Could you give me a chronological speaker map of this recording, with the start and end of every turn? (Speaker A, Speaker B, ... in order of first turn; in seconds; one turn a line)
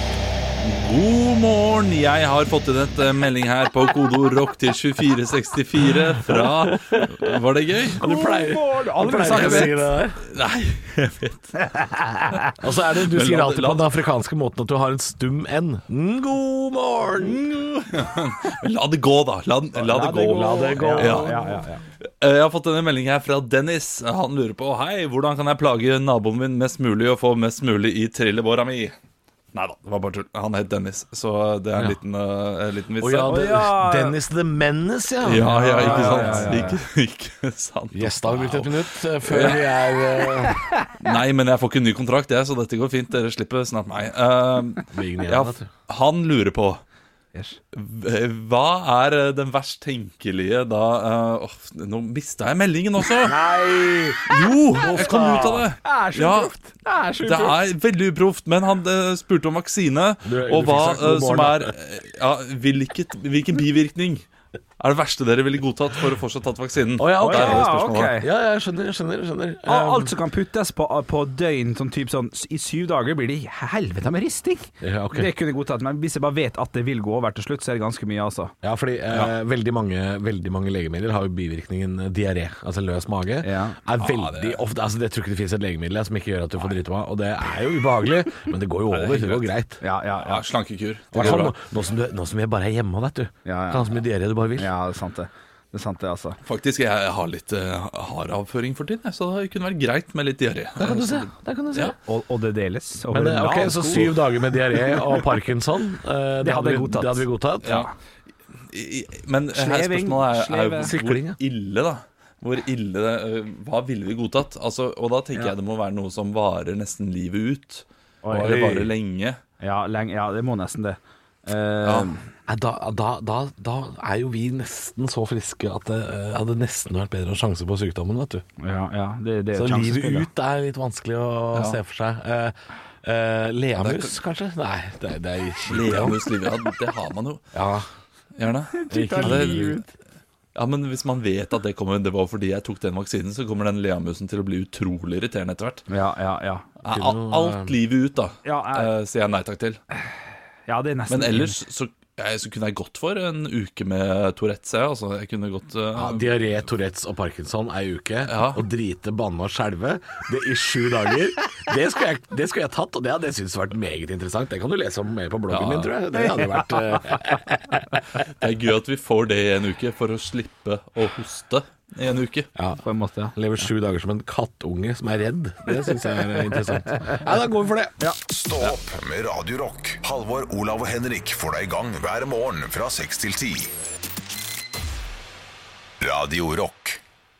Speaker A: 0.6-8.0
Speaker B: 6.3-7.4
Speaker B: 8.0-10.2
Speaker C: 8.0-9.8
Speaker A: 9.2-11.8
Speaker C: 11.8-12.5
Speaker B: 12.6-17.4
Speaker A: 13.1-13.9
Speaker A: 17.2-21.4
Speaker C: 19.8-21.8
Speaker B: 20.2-21.4
Speaker A: 22.2-28.9
Speaker A: 29.5-33.6
Speaker B: 33.0-36.8
Speaker C: 33.3-34.2
Speaker A: 35.2-39.7
Speaker C: 35.4-36.8
Speaker B: 37.9-40.6
Speaker A: 41.0-46.8
Speaker B: 44.9-45.7
Speaker A: 47.7-53.4
Speaker B: 53.2-55.7
Speaker A: 54.3-56.5
Speaker C: 55.8-57.6
Speaker A: 57.2-64.2
Speaker B: 60.2-61.7
Speaker A: 64.8-68.1
Speaker B: 67.0-70.1
Speaker C: 67.2-68.3
Speaker C: 69.7-78.5
Speaker B: 74.8-75.3
Speaker B: 78.6-89.8
Speaker C: 83.4-83.8
Speaker A: 84.0-84.6
Speaker A: 88.9-89.4
Speaker C: 89.8-90.4
Speaker A: 90.2-91.5
Speaker B: 91.1-94.7
Speaker C: 93.4-93.9
Speaker C: 94.6-96.4
Speaker A: 96.5-101.9
Speaker B: 100.8-102.0
Speaker C: 102.0-104.2
Speaker B: 103.1-107.8
Speaker C: 104.7-105.2
Speaker C: 106.4-107.9
Speaker A: 107.6-107.9
Speaker A: 108.7-119.4
Speaker C: 109.5-110.9
Speaker B: 110.8-111.4
Speaker C: 118.2-118.7
Speaker B: 118.3-118.9
Speaker C: 119.6-122.2
Speaker B: 122.5-128.4
Speaker C: 128.6-130.3
Speaker B: 129.5-136.2
Speaker A: 131.5-131.8
Speaker A: 133.8-134.2
Speaker A: 135.7-137.4
Speaker B: 137.5-137.9
Speaker A: 138.4-139.8
Speaker C: 138.8-139.8
Speaker B: 138.9-139.8
Speaker A: 140.6-145.8
Speaker C: 145.9-146.7
Speaker A: 146.8-149.8
Speaker B: 146.9-147.8
Speaker C: 148.4-148.9
Speaker C: 150.7-151.6
Speaker A: 151.1-156.4
Speaker B: 155.9-168.2
Speaker A: 158.3-158.6
Speaker A: 165.5-165.9
Speaker A: 168.4-172.5
Speaker B: 172.6-172.8
Speaker C: 172.8-173.3
Speaker B: 173.3-178.0
Speaker D: 178.3-183.7
Speaker D: 186.0-187.0